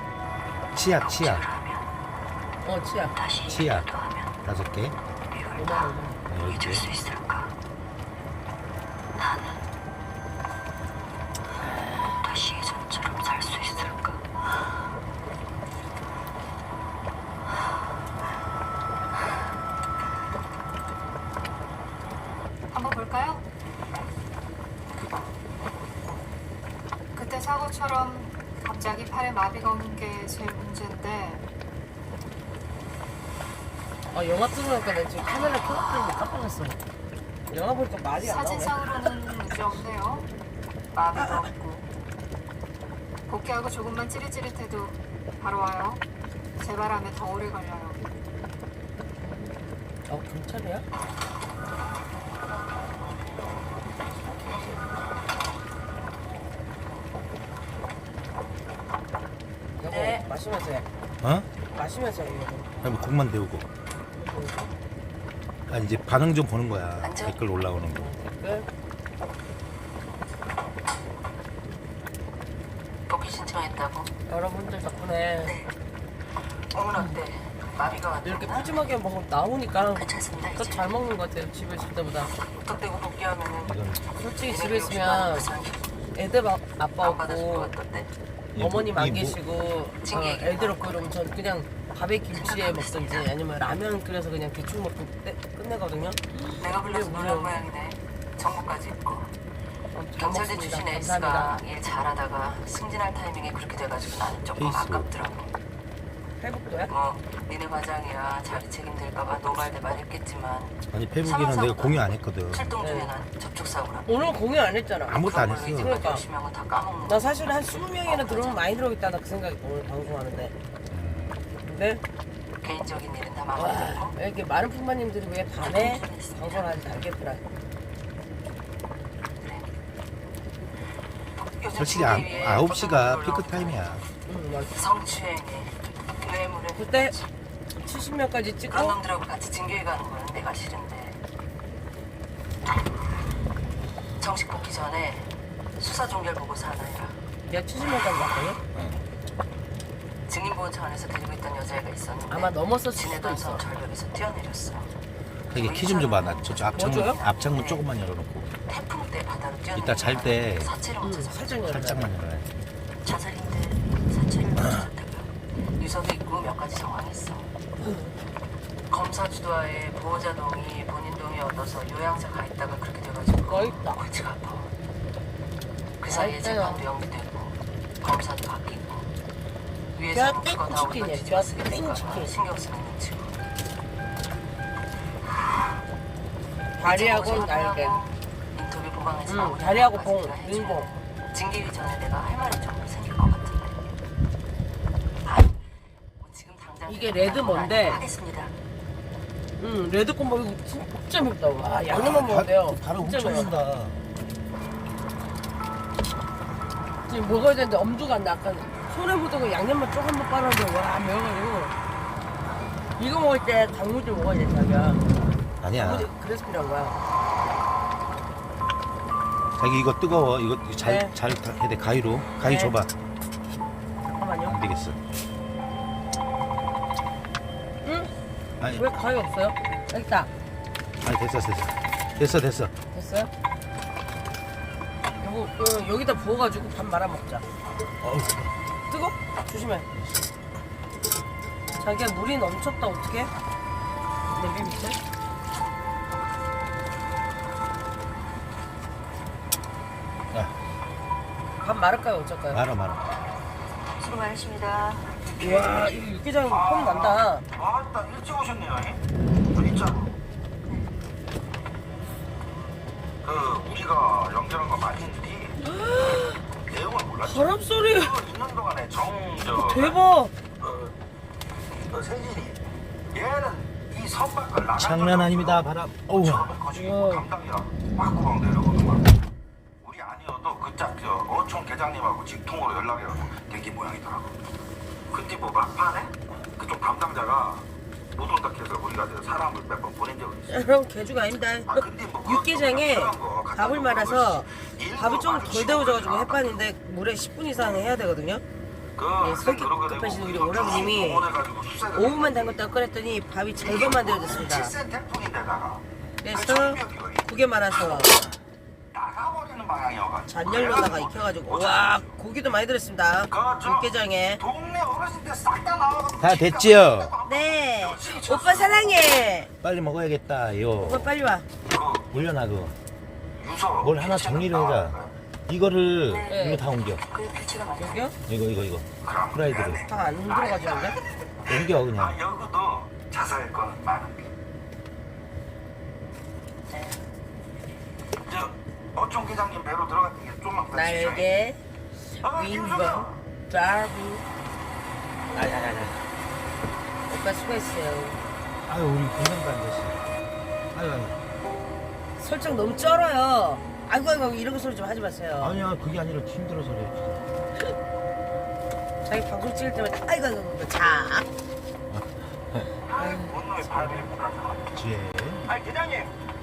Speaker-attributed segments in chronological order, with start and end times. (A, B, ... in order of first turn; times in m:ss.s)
0:00.7-0:01.4 A
0:01.0-0:01.8 B
0:02.6-0:03.2 C
0:03.2-0:04.3 B
0:03.4-0:03.9 A
0:04.4-0:05.0 A
0:05.3-0:07.5 B
0:05.6-0:06.2 C
0:06.3-0:06.8 A
0:09.2-0:09.6 B
0:12.2-0:14.2 B
0:22.7-0:23.4 D
0:27.1-0:31.5 D
0:34.1-0:36.8 C
0:37.5-0:38.9 C
0:38.2-0:40.3 D
0:40.9-0:41.9 D
0:43.3-0:46.0 D
0:46.6-0:48.0 D
0:50.1-0:50.8 C
0:59.8-1:00.9 C
0:59.9-1:00.2 B
1:01.2-1:01.5 A
1:01.7-1:02.7 C
1:02.8-1:03.7 A
1:04.2-1:04.6 C
1:05.7-1:08.1 A
1:07.0-1:07.4 B
1:08.0-1:08.7 C
1:13.1-1:14.1 B
1:14.3-1:15.5 C
1:15.4-1:15.7 B
1:16.7-1:18.8 B
1:18.2-1:22.3 C
1:20.0-1:20.9 B
1:22.5-1:23.8 B
1:23.6-1:24.0 A
1:24.2-1:25.5 C
1:24.4-1:25.8 B
1:26.2-1:27.7 C
1:27.0-1:28.1 B
1:28.5-1:29.4 A
1:28.6-1:37.6 C
1:30.0-1:31.0 B
1:32.4-1:33.3 B
1:36.6-1:39.3 B
1:39.9-1:41.6 C
1:40.2-1:45.5 B
1:44.6-1:45.1 A
1:46.4-1:46.9 C
1:46.9-1:54.2 B
1:50.9-1:52.7 A
1:52.8-1:53.1 C
1:54.1-1:55.2 C
1:55.1-1:56.0 A
1:55.2-1:58.6 B
1:55.8-1:56.2 C
1:57.1-2:00.5 C
2:00.9-2:01.4 A
2:01.6-2:02.0 C
2:02.6-2:04.2 B
2:03.6-2:07.4 C
2:05.6-2:06.7 B
2:11.6-2:13.8 B
2:11.8-2:14.1 A
2:14.3-2:14.7 C
2:14.7-2:17.2 B
2:16.8-2:17.2 C
2:17.8-2:19.0 C
2:18.7-2:21.2 B
2:24.2-2:27.2 B
2:27.5-2:28.6 C
2:28.7-2:29.0 A
2:30.3-2:34.9 B
2:32.3-2:33.6 C
2:35.5-2:38.5 A
2:35.6-2:37.8 B
2:36.8-2:37.2 C
2:38.7-2:41.7 B
2:39.7-2:40.7 A
2:41.0-2:42.1 C
2:41.7-2:42.5 A
2:43.0-2:47.5 B
2:48.9-2:54.7 B
2:53.4-2:54.0 C
2:56.0-2:59.1 B
2:56.1-2:56.8 C
3:00.0-3:03.3 B
3:00.1-3:02.3 C
3:06.8-3:08.0 C
3:06.8-3:13.8 B
3:09.3-3:10.9 C
3:15.2-3:15.6 B
3:16.2-3:18.6 B
3:16.9-3:18.0 C
3:19.6-3:23.5 C
3:21.9-3:24.0 A
3:27.1-3:31.7 C
3:33.0-3:35.0 C
3:35.6-3:36.1 A
3:35.8-3:37.0 C
3:39.6-3:42.9 A
3:40.8-3:41.1 C
3:42.4-3:42.8 C
3:44.1-3:44.6 C
3:44.5-3:45.0 A
3:47.8-3:48.1 C
3:48.6-3:49.0 A
3:48.7-3:50.3 C
3:51.0-3:52.7 A
3:52.9-3:53.3 C
3:55.2-3:57.4 C
3:58.0-3:58.5 A
3:58.9-3:59.9 C
4:01.8-4:03.3 C
4:04.3-4:05.0 C
4:11.6-4:12.6 C
4:12.5-4:13.1 A
4:14.0-4:15.2 B
4:15.4-4:17.4 C
4:15.4-4:15.9 E
4:16.4-4:20.1 E
4:23.2-4:25.6 E
4:25.6-4:26.4 C
4:26.6-4:30.0 E
4:27.2-4:28.1 C
4:29.5-4:30.3 C
4:30.6-4:31.0 E
4:31.8-4:39.1 E
4:34.8-4:36.6 A
4:36.8-4:37.3 C
4:39.8-4:44.3 E
4:45.1-4:50.7 E
4:50.5-4:58.4 C
4:51.7-4:56.6 E
4:59.0-5:02.7 E
4:59.2-5:01.3 C
5:01.9-5:04.7 C
5:03.6-5:07.3 E
5:06.2-5:08.2 C
5:08.9-5:12.1 E
5:10.3-5:14.4 C
5:13.3-5:19.1 E
5:16.2-5:17.1 A
5:17.3-5:19.5 C
5:19.6-5:21.1 A
5:20.8-5:21.5 C
5:21.7-5:22.1 E
5:22.1-5:22.8 A
5:23.4-5:25.1 E
5:23.8-5:27.0 A
5:26.1-5:26.6 B
5:26.3-5:26.6 C
5:27.1-5:28.1 B
5:27.8-5:28.2 C
5:28.3-5:29.8 A
5:29.0-5:34.3 E
5:29.8-5:31.0 C
5:31.5-5:32.2 A
5:38.2-5:41.3 E
5:40.7-5:41.6 C
5:42.1-5:44.2 C
5:42.2-5:43.2 E
5:45.3-5:46.0 A
5:47.1-5:48.2 C
5:48.6-5:50.0 A
5:50.7-5:51.2 A
5:52.2-5:55.6 C
5:55.4-5:57.3 A
5:59.0-6:01.3 C
6:01.9-6:02.7 A
6:02.9-6:04.7 E
6:03.0-6:03.4 C
6:04.7-6:05.5 A
6:05.5-6:06.1 E